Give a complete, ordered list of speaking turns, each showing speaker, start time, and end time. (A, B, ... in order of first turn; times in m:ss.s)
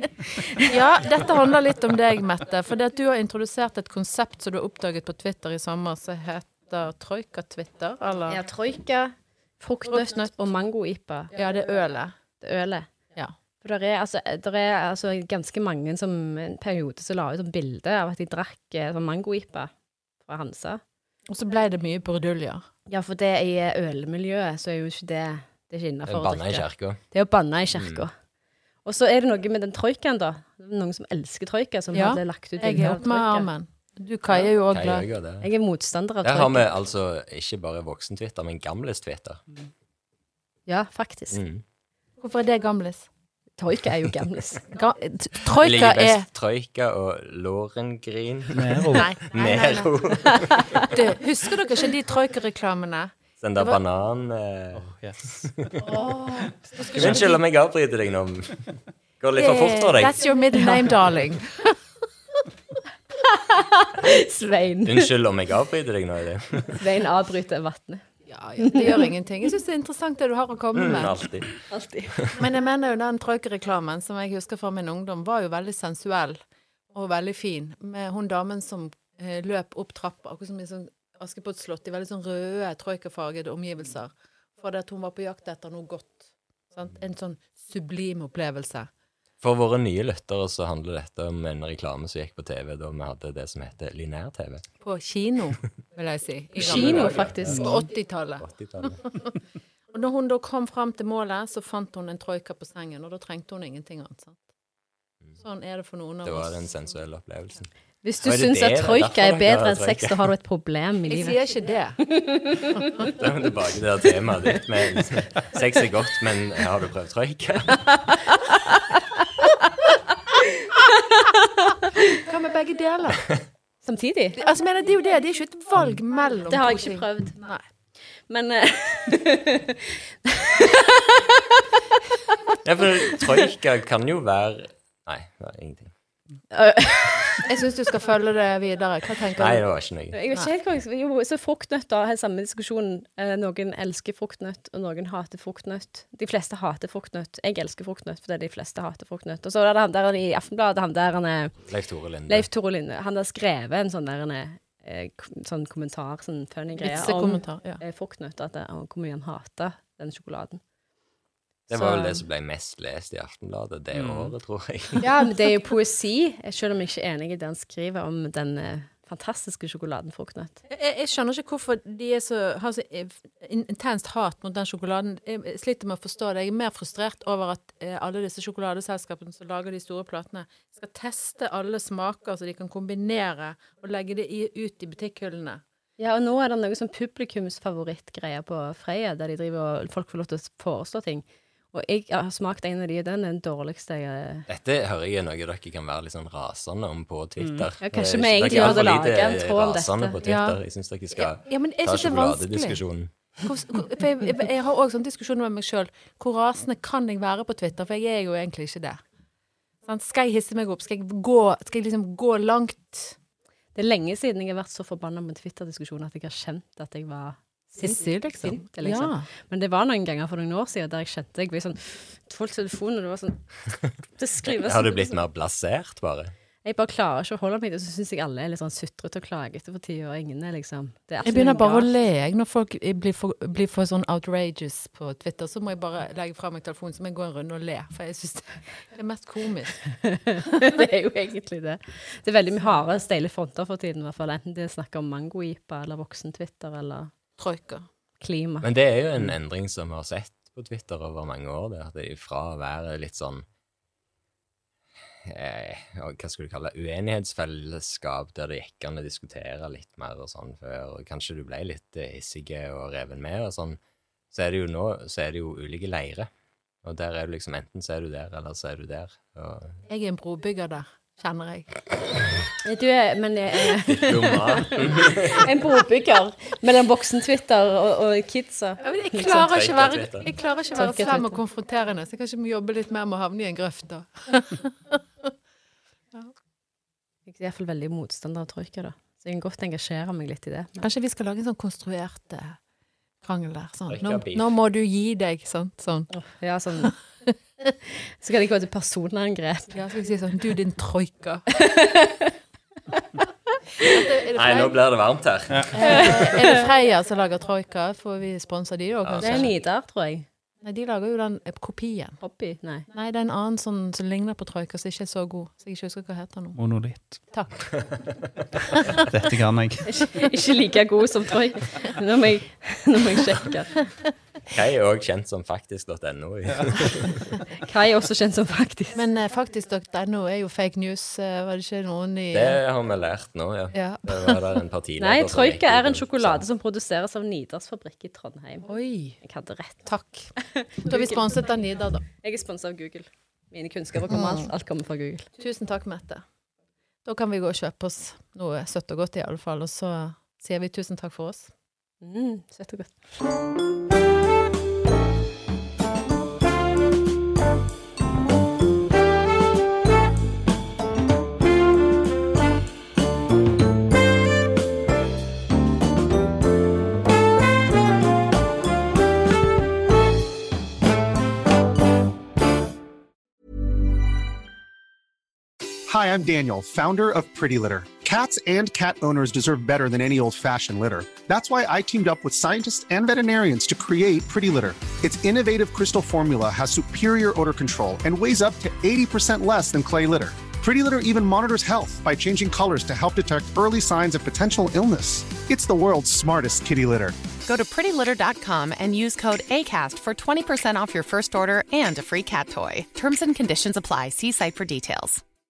0:00.2-0:08.4 A
0:08.3-0:11.3 B
0:09.9-0:10.4 A
0:11.3-0:12.1 A
0:12.4-0:12.9 B
0:13.6-0:19.7 B
0:20.2-0:20.8 B
0:21.3-0:22.6 A
0:22.9-0:28.1 B
0:26.1-0:27.0 C
0:27.7-0:28.0 C
0:28.8-0:33.5 B
0:31.9-0:35.0 A
0:34.7-0:35.5 C
0:35.4-0:36.7 B
0:36.2-0:39.4 C
0:40.7-0:41.4 B
0:41.3-0:41.6 C
0:42.2-0:43.1 A
0:43.6-0:44.7 B
0:44.7-0:46.2 A
0:45.6-0:50.9 C
0:48.5-0:49.1 D
0:48.9-0:53.8 A
0:53.4-0:55.9 C
0:54.7-0:55.7 D
0:55.8-0:57.3 A
0:56.9-0:57.2 D
0:56.9-1:00.2 C
0:59.4-1:01.7 A
1:00.6-1:00.8 B
1:03.3-1:05.1 B
1:04.9-1:06.8 C
1:06.8-1:08.0 B
1:08.3-1:11.2 A
1:08.6-1:09.1 B
1:10.7-1:11.5 C
1:11.7-1:12.3 B
1:12.4-1:16.4 A
1:16.9-1:28.9 A
1:29.4-1:34.6 C
1:34.8-1:39.3 A
1:36.6-1:37.8 B
1:36.6-1:37.7 C
1:38.4-1:39.0 C
1:39.9-1:44.4 A
1:45.4-1:46.7 A
1:46.2-1:47.7 C
1:48.0-1:51.4 B
1:48.2-1:50.2 C
1:51.1-1:52.0 A
1:52.1-1:53.0 B
1:53.0-1:58.0 C
1:57.9-2:02.0 B
2:02.1-2:03.4 A
2:03.8-2:04.4 B
2:04.4-2:07.6 A
2:06.5-2:07.4 B
2:08.2-2:12.6 B
2:12.6-2:15.9 C
2:16.5-2:17.4 B
2:17.4-2:19.6 A
2:19.4-2:20.2 C
2:20.1-2:31.5 B
2:31.6-2:32.5 C
2:32.3-2:40.6 B
2:36.8-2:37.8 A
2:41.7-2:45.1 C
2:41.7-2:42.2 B
2:43.9-2:44.3 D
2:45.0-2:50.6 B
2:50.7-3:05.6 A
3:06.0-3:14.5 B
3:14.5-3:23.1 C
3:17.4-3:17.7 D
3:17.8-3:20.2 B
3:20.2-3:20.6 A
3:21.2-3:22.8 A
3:23.4-3:29.0 A
3:29.9-3:33.2 A
3:33.7-3:43.5 B
3:37.8-3:39.3 A
3:44.2-3:45.2 B
3:44.5-3:46.3 C
3:46.6-3:51.9 B
3:51.2-3:59.9 A
4:00.0-4:07.1 B
4:07.4-4:07.9 A
4:08.2-4:08.7 B
4:08.6-4:13.4 C
4:15.2-4:23.8 C
4:24.3-4:26.3 C
4:26.8-4:29.8 C
4:29.9-4:31.7 A
4:32.6-4:39.5 B
4:33.8-4:35.5 C
4:38.8-4:45.3 A
4:39.4-4:40.3 C
4:40.7-4:41.4 B
4:47.3-4:50.8 B
4:50.8-4:52.6 A
4:53.2-4:56.1 A
4:53.9-4:54.5 C
4:56.1-4:56.9 B
4:57.9-4:59.8 B
4:59.7-5:01.4 A
5:01.5-5:02.3 B
5:02.9-5:03.2 B
5:03.8-5:04.8 A
5:04.3-5:06.1 C
5:05.7-5:09.5 A
5:05.8-5:06.6 B
5:09.0-5:09.5 C
5:09.2-5:10.2 B
5:10.6-5:12.2 A
5:12.2-5:12.9 B
5:12.9-5:16.6 A
5:16.6-5:17.2 D
5:17.3-5:17.8 A
5:19.1-5:19.9 D
5:19.9-5:23.9 B
5:24.5-5:27.2 C
5:27.6-5:29.0 B
5:28.9-5:32.6 A
5:32.3-5:36.4 C
5:33.7-5:34.4 A
5:35.0-5:38.7 B
5:38.6-5:39.2 A
5:39.2-5:39.9 B
5:39.8-5:42.0 A
5:40.4-5:41.2 B
5:42.1-5:45.3 B
5:44.1-5:44.5 A
5:45.4-5:46.2 A
5:47.0-5:51.5 A
5:52.0-5:53.0 B
6:15.9-6:37.2 E
6:37.4-6:45.2 F